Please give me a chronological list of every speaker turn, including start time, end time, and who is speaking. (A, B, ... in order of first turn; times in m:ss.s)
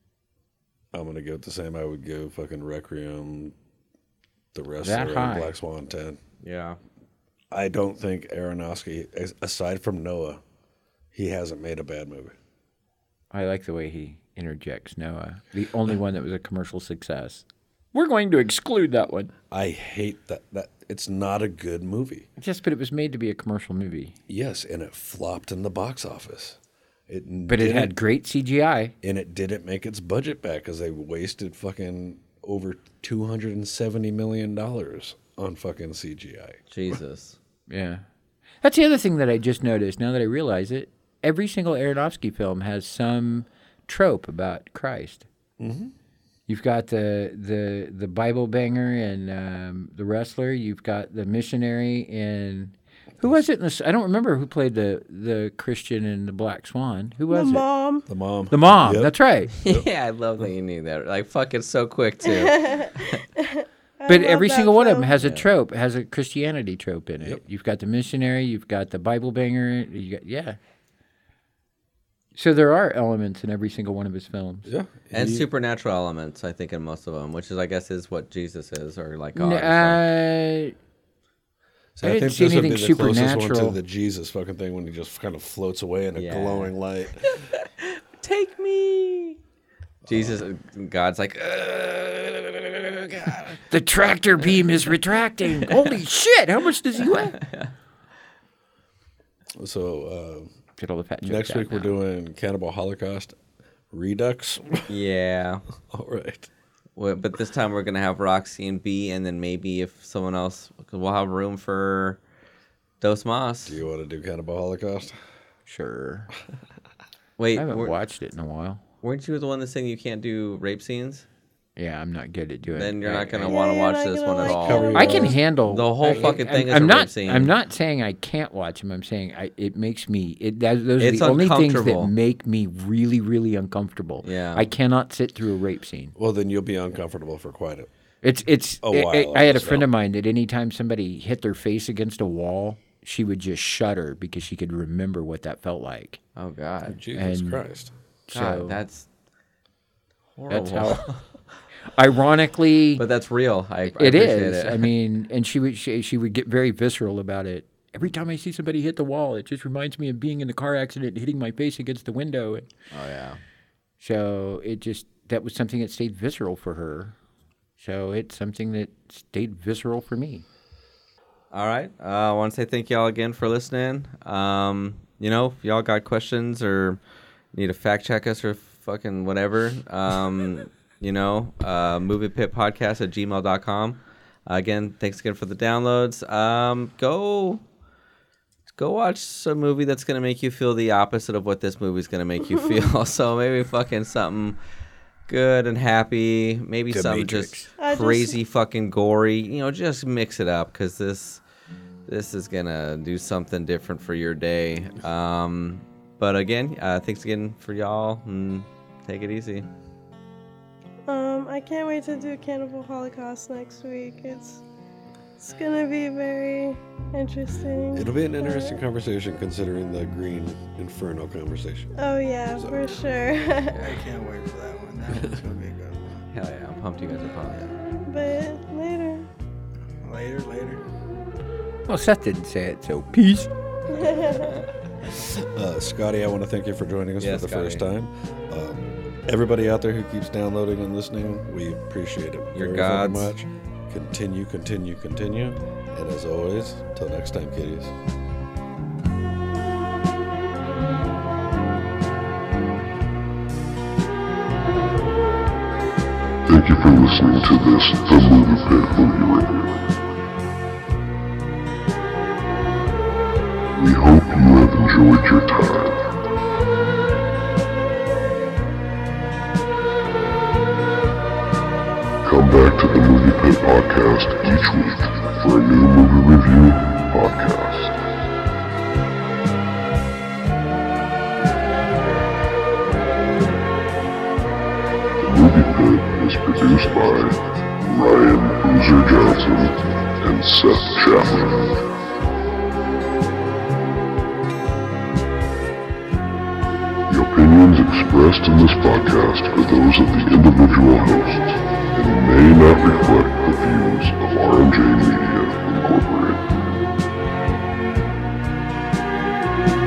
0:00.9-0:03.5 A
0:04.5-0:06.2 A
0:04.8-0:05.5 B
0:06.4-0:06.8 C
0:07.5-0:10.4 A
0:11.1-0:12.4 A
0:13.3-0:19.3 B
0:19.5-0:22.3 A
0:22.4-0:24.1 B
0:24.3-0:28.0 A
0:27.5-0:28.9 B
0:29.0-0:36.6 A
0:36.7-0:37.4 C
0:37.7-0:38.0 B
0:38.6-0:45.3 B
0:45.6-0:45.9 A
0:46.5-0:57.6 B
0:57.3-0:58.1 D
0:58.1-0:59.8 A
0:58.5-0:59.5 B
0:59.6-1:03.2 C
1:02.2-1:05.1 D
1:04.1-1:10.6 B
1:12.4-1:14.7 B
1:14.6-1:15.4 A
1:15.1-1:20.0 C
1:19.3-1:20.7 B
1:22.0-1:27.3 A
1:22.0-1:23.8 B
1:26.1-1:26.7 C
1:27.3-1:29.4 C
1:30.0-1:30.5 A
1:30.1-1:33.6 C
1:33.7-1:37.4 B
1:37.0-1:37.7 C
1:39.6-1:40.5 A
1:40.8-1:41.9 B
1:41.2-1:43.4 A
1:43.9-1:44.9 A
1:44.9-1:45.6 C
1:45.8-1:46.5 A
1:47.0-1:52.2 C
1:53.0-1:53.8 C
1:53.6-1:55.2 A
1:55.7-1:56.3 B
1:57.4-1:57.9 C
1:57.5-1:58.8 B
1:59.0-2:01.2 C
2:01.8-2:03.5 B
2:02.7-2:07.5 C
2:03.5-2:05.4 D
2:04.4-2:05.4 A
2:04.9-2:16.1 B
2:11.0-2:12.1 C
2:14.2-2:14.6 C
2:16.2-2:17.9 A
2:18.2-2:26.2 B
2:18.8-2:19.9 A
2:26.4-2:27.0 C
2:26.8-2:27.9 A
2:27.1-2:27.6 B
2:28.3-2:28.8 B
2:28.3-2:29.0 C
2:30.4-2:31.2 C
2:30.5-2:31.1 B
2:31.9-2:33.0 B
2:33.0-2:34.9 C
2:33.9-2:42.7 B
2:42.9-2:43.4 C
2:44.0-2:47.1 B
2:47.8-2:50.4 B
2:51.5-2:57.0 C
2:57.5-3:07.6 C
3:08.7-3:14.6 C
3:15.3-3:21.4 C
3:16.9-3:17.7 B
3:17.8-3:18.4 D
3:22.1-3:29.7 C
3:31.1-3:34.6 D
3:35.4-3:38.8 D
3:37.9-3:41.9 A
3:42.0-3:43.8 D
3:42.5-3:42.8 A
3:43.7-3:44.0 C
3:43.8-3:46.2 E
3:46.3-3:47.7 C
3:48.0-3:49.3 D
3:50.0-3:50.8 E
3:51.9-3:53.5 B
3:53.9-3:54.6 D
3:55.1-4:07.9 A
3:57.2-3:57.8 C
4:02.5-4:03.3 C
4:16.4-4:19.9 F
4:23.8-4:26.1 F
4:32.2-4:38.0 F
4:45.2-4:51.8 F
4:57.1-5:06.6 F